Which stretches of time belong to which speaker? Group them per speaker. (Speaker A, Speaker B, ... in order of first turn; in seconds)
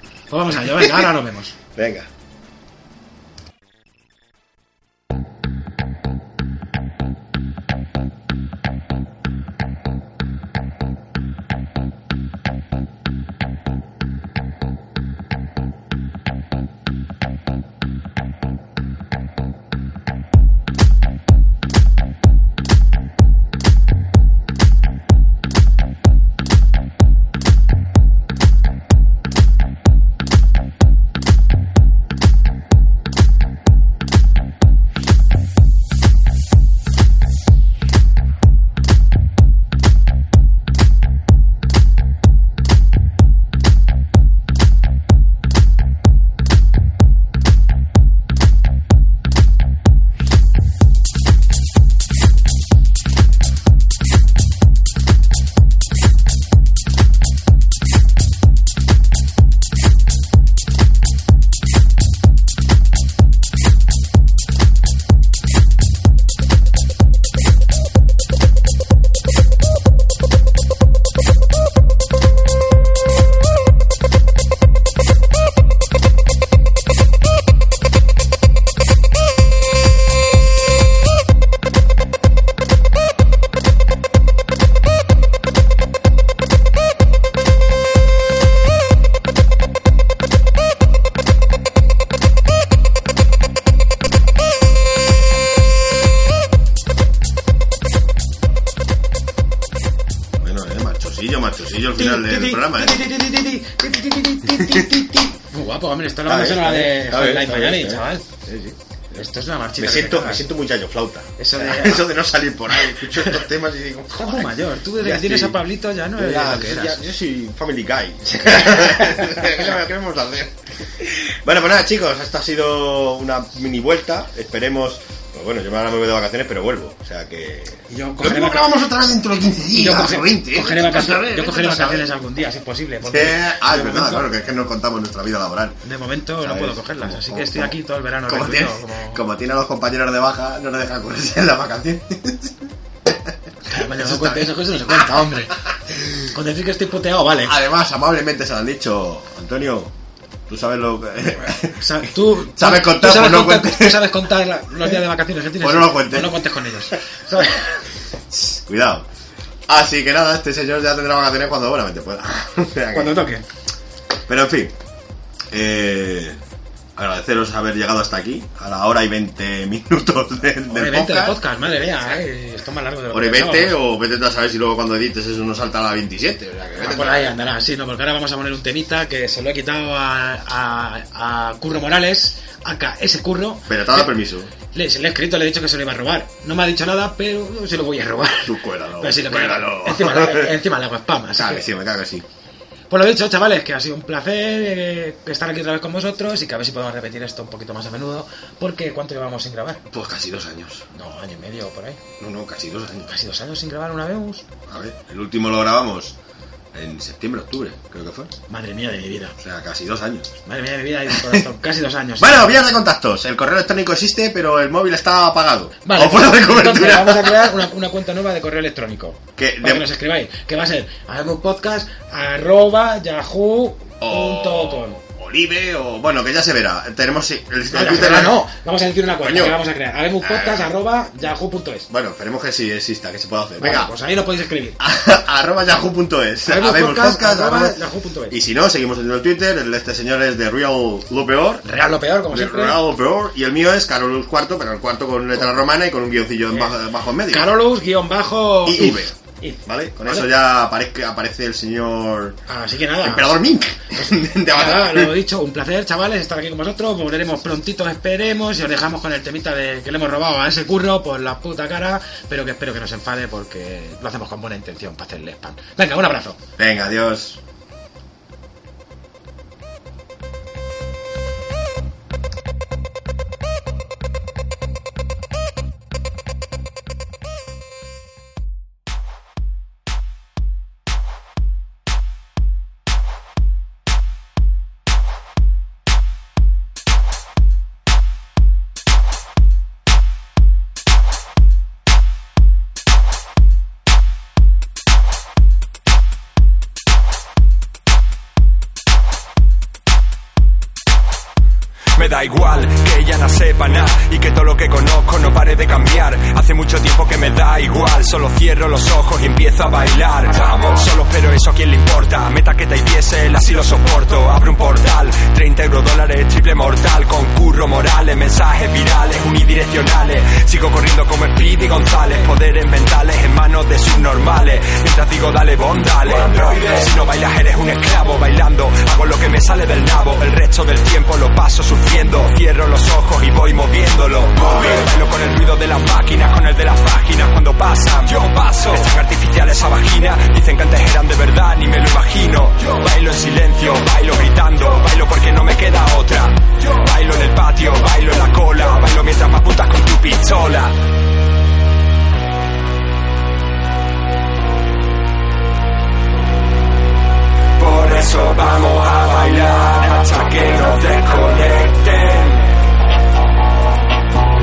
Speaker A: 0.3-1.6, 102.0-108.3, 109.1-110.5, 111.4-112.1, 112.8-113.4, 114.1-117.0, 118.9-119.4, 127.9-128.7, 129.7-134.3, 135.8-139.2, 143.7-145.6, 146.2-147.6, 151.7-157.7, 162.9-163.4, 170.7-173.8, 176.8-184.2, 184.7-191.7, 192.9-199.8, 200.9-202.0, 203.1-204.5, 208.5-209.4, 210.4-212.7, 215.8-225.0, 227.7-231.9, 233.6-234.8, 236.5-238.4, 241.6-242.9, 246.5-246.8, 247.3-250.3, 252.5-253.4, 254.1-266.4
Speaker B: 0.7-1.1, 1.8-2.1, 100.4-103.1, 104.5-104.9, 106.2-108.8, 109.8-115.6, 116.1-132.1, 133.0-135.8, 136.4-145.0, 145.7-146.3, 147.4-149.9, 150.5-154.3, 155.6-156.9, 158.3-159.1, 159.7-163.2, 164.3-164.8, 165.5-166.4, 166.9-172.2, 173.1-177.3, 183.7-184.5, 188.4-190.6, 191.3-192.3, 199.9-200.9, 202.2-203.2, 204.7-206.2, 206.7-208.3, 209.4-210.3, 211.1-211.4, 212.2-217.7, 219.4-219.9, 224.0-228.4, 229.1-229.6, 230.2-230.7, 231.9-233.9, 234.8-237.8, 238.3-241.7, 242.3-247.5, 248.6-249.1, 249.7-252.4, 253.0-255.2, 266.6-267.4
Speaker C: 301.9-350.8, 357.6-362.5